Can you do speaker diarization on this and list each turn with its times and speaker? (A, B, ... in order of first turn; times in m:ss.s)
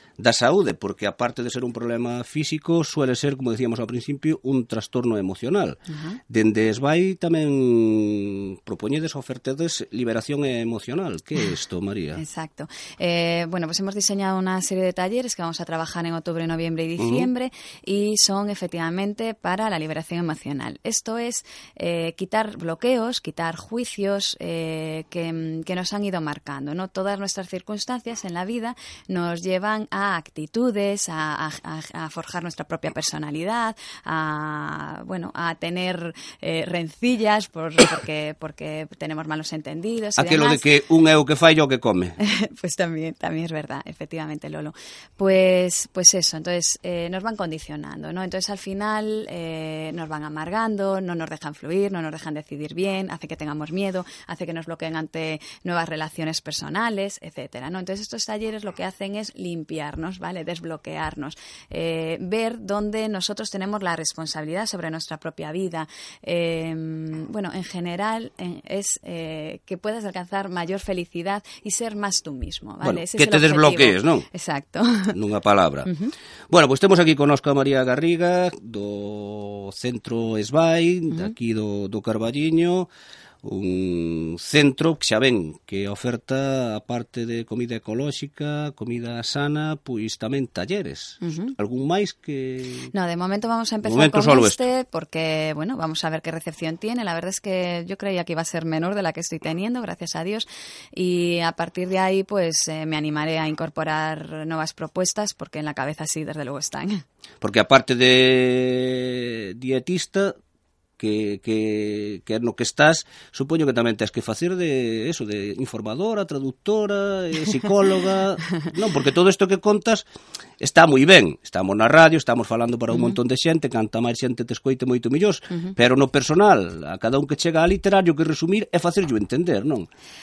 0:00.2-0:12.2 A
0:05.9-0:06.2 B
0:12.2-0:40.7 B
0:17.0-0:17.3 A
0:40.2-0:42.2 A
0:42.2-1:15.2 B
1:12.8-1:14.3 A
1:15.1-1:15.9 A
1:15.9-1:16.1 B
1:16.5-1:22.9 A
1:23.4-1:32.9 A
1:31.2-1:31.5 B
1:32.9-1:47.0 B
1:33.8-1:34.6 A
1:47.4-1:50.4 A
1:51.0-2:00.1 A
2:00.6-2:09.9 A